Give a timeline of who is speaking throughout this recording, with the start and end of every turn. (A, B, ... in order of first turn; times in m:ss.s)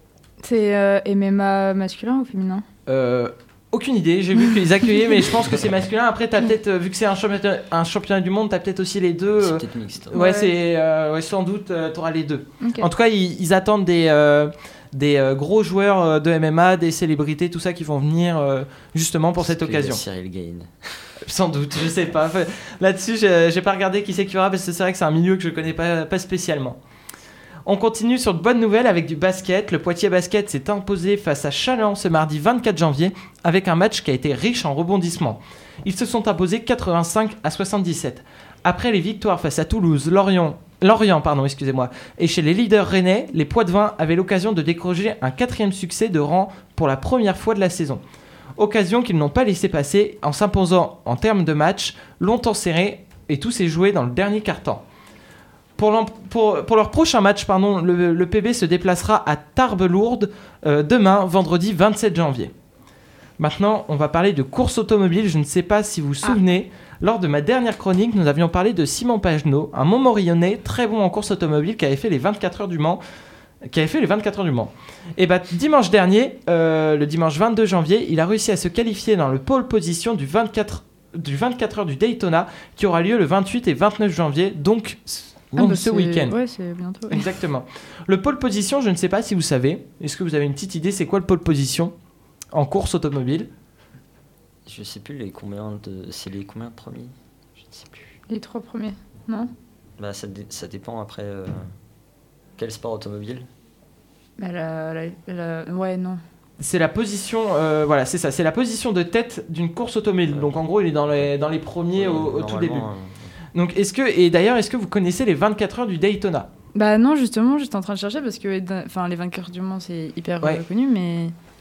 0:00.4-0:02.6 A
0:02.9-0:20.0 B
0:09.4-0:10.2 C
0:10.1-0:10.5 A
0:12.6-0:12.9 A
0:19.4-0:21.1 C
0:21.2-0:26.8 B
0:27.7-0:48.0 B
0:48.6-0:54.8 B
0:55.8-1:02.5 B
1:03.4-1:13.0 B
1:13.7-1:26.3 B
1:25.6-1:27.2 A
1:27.1-1:31.9 B
1:32.5-1:33.5 B
1:34.7-1:38.2 C
1:38.3-1:39.5 A
1:40.0-1:41.7 C
1:42.6-1:43.5 C
1:44.4-1:46.2 A
1:46.6-1:52.9 B
1:52.0-1:53.3 C
1:53.5-1:56.5 B
1:56.8-2:01.3 A